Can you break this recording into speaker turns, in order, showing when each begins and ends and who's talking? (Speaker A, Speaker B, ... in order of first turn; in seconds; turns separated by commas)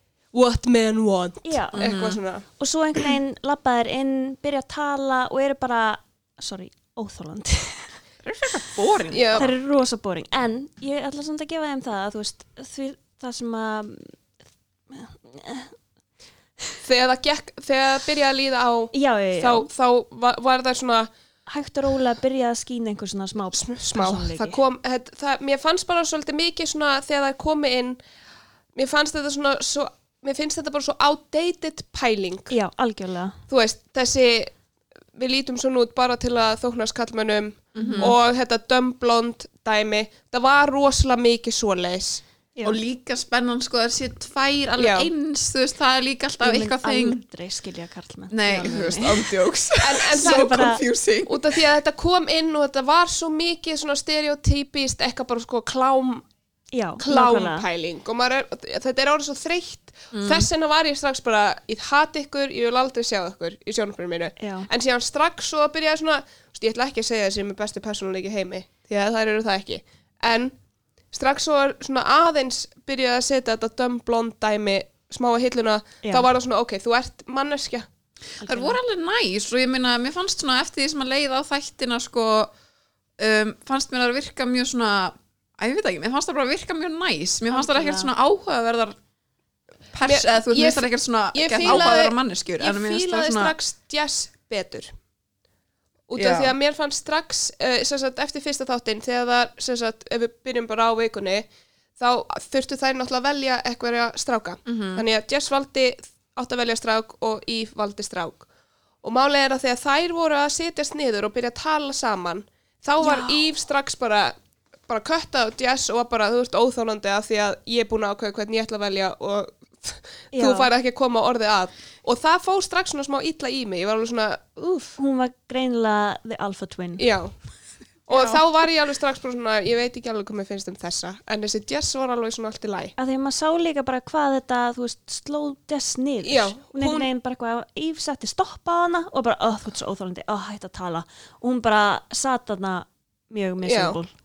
Speaker A: 0.3-2.5, Speaker B: 1.4-1.9, Speaker C: 1.7-2.2, Speaker B: 2.6-7.9, Speaker C: 8.2-9.5, Speaker A: 9.1-9.5, Speaker B: 9.3-14.1, Speaker B: 14.9-15.7, Speaker A: 16.8-21.1, Speaker B: 18.9-19.7, Speaker B: 21.5-24.6, Speaker A: 23.5-28.0, Speaker A: 28.8-32.5, Speaker B: 32.5-33.4, Speaker A: 33.5-34.5, Speaker A: 35.1-42.2, Speaker C: 37.8-38.2, Speaker B: 37.8-38.1, Speaker C: 42.6-47.2, Speaker A: 44.8-45.1, Speaker B: 46.4-49.3, Speaker C: 48.3-51.6, Speaker A: 49.8-50.5, Speaker B: 50.2-50.8, Speaker A: 51.3-56.2, Speaker B: 56.7-57.6, Speaker A: 57.0-70.5, Speaker C: 60.1-60.5, Speaker B: 64.4-64.7, Speaker A: 71.1-77.9, Speaker B: 78.4-78.8, Speaker C: 78.4-82.5, Speaker C: 83.2-89.0, Speaker B: 87.5-88.1, Speaker C: 89.9-93.5, Speaker A: 90.1-94.9, Speaker A: 96.1-108.5, Speaker C: 96.2-96.5, Speaker C: 104.7-105.0, Speaker A: 109.0-114.3, Speaker A: 114.9-125.0, Speaker B: 120.3-120.7, Speaker B: 125.0-127.0, Speaker A: 127.0-127.3, Speaker A: 128.1-132.9, Speaker B: 133.0-144.1, Speaker A: 136.2-137.1, Speaker A: 143.6-144.0